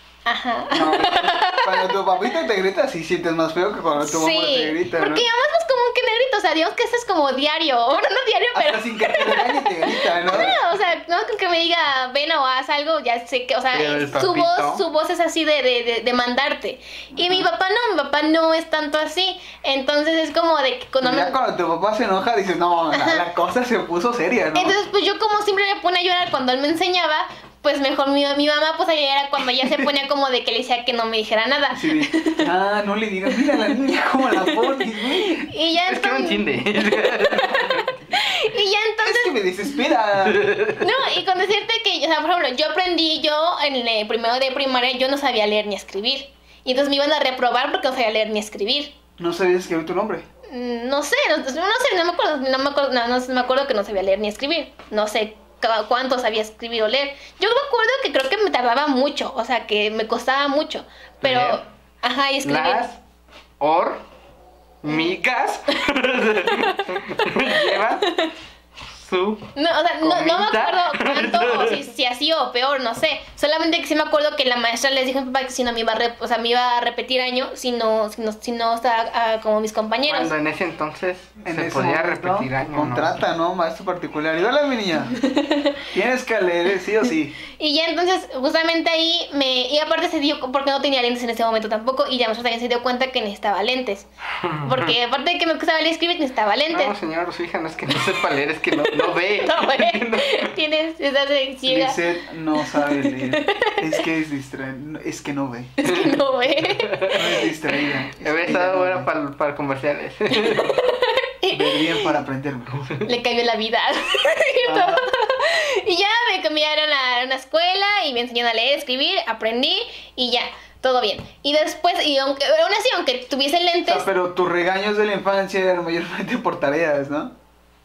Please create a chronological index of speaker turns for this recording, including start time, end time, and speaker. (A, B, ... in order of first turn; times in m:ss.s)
0:00.2-0:02.0 A
0:00.7-0:05.2 B
0:04.0-0:21.4 A
0:08.5-0:10.6 B
0:13.7-0:14.8 C
0:21.0-0:24.8 B
0:22.9-0:23.2 A
0:24.6-0:32.5 A
0:31.7-0:35.5 B
0:35.4-0:39.4 A
0:35.8-0:38.0 C
0:39.0-0:40.5 B
0:40.2-0:41.0 C
0:40.8-0:48.9 A
0:49.2-0:50.2 B
0:50.5-1:02.8 A
1:01.2-1:01.6 C
1:02.4-1:03.0 C
1:03.6-1:04.0 C
1:04.8-1:08.1 C
1:06.5-1:08.3 A
1:08.9-1:11.8 C
1:09.6-1:20.3 A
1:20.1-1:23.1 C
1:21.4-1:25.2 B
1:25.2-1:25.8 A
1:25.9-1:27.4 B
1:27.5-1:34.1 A
1:34.4-1:35.0 C
1:34.6-1:36.9 A
1:36.7-1:40.6 C
1:38.8-1:42.0 A
1:41.6-1:45.7 B
1:42.6-1:44.0 A
1:45.8-1:47.5 A
1:45.8-1:47.3 C
1:47.1-1:49.1 B
1:48.2-1:50.8 C
1:50.3-1:52.1 A
1:51.5-1:52.9 B
1:53.0-2:04.1 A
1:54.6-1:55.0 B
2:03.9-2:07.3 B